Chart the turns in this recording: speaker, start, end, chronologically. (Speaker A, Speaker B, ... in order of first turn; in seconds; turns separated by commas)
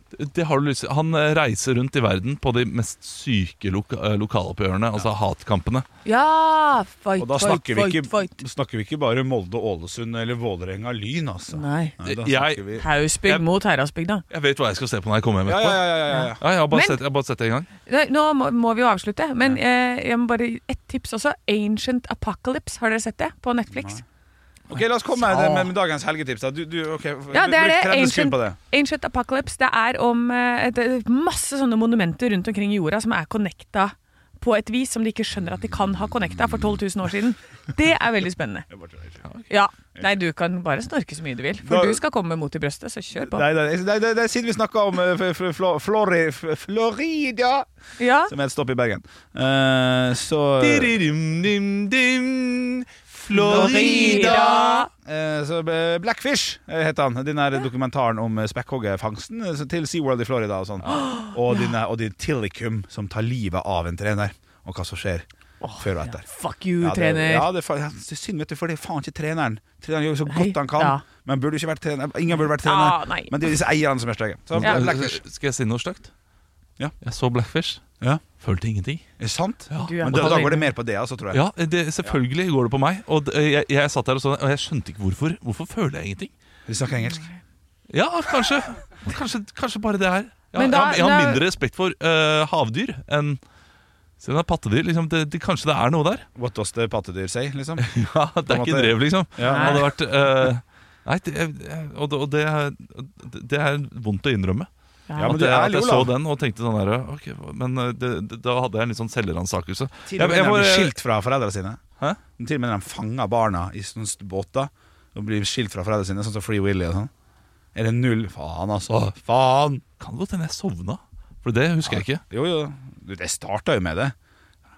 Speaker A: 0.1-5.9, Speaker B: 6.0-8.3, Speaker C: 7.2-12.9, Speaker B: 11.5-11.9, Speaker A: 12.0-13.5, Speaker B: 12.8-14.2, Speaker A: 14.3-17.7, Speaker C: 15.4-16.4, Speaker B: 16.1-17.0, Speaker B: 17.9-24.0, Speaker C: 23.7-24.0, Speaker C: 24.7-28.6, Speaker B: 25.2-25.7, Speaker B: 27.3-38.7, Speaker C: 38.7-39.2, Speaker B: 39.5-43.5, Speaker C: 41.6-42.0, Speaker C: 43.2-47.6, Speaker B: 48.0-48.3, Speaker C: 48.2-50.9, Speaker A: 50.6-54.7, Speaker B: 53.3-54.9, Speaker C: 53.3-65.3, Speaker B: 60.9-61.7, Speaker B: 65.6-67.5, Speaker C: 65.8-66.2, Speaker C: 66.8-75.2, Speaker B: 70.3-71.0, Speaker B: 72.6-73.4, Speaker A: 74.5-76.1, Speaker B: 74.6-74.9, Speaker A: 77.0-77.8, Speaker A: 78.4-79.0, Speaker C: 79.2-81.4, Speaker A: 79.7-80.6, Speaker B: 79.8-80.7, Speaker A: 81.3-86.3, Speaker C: 86.7-87.3, Speaker A: 87.9-93.4, Speaker B: 90.5-91.4, Speaker A: 94.2-96.3, Speaker C: 96.4-97.9, Speaker A: 97.8-110.9, Speaker C: 98.5-99.9, Speaker B: 99.4-99.9, Speaker B: 105.1-105.4, Speaker C: 105.2-106.1, Speaker C: 110.1-111.8, Speaker C: 112.4-117.1, Speaker C: 117.8-119.8, Speaker A: 120.0-122.2, Speaker C: 121.8-124.1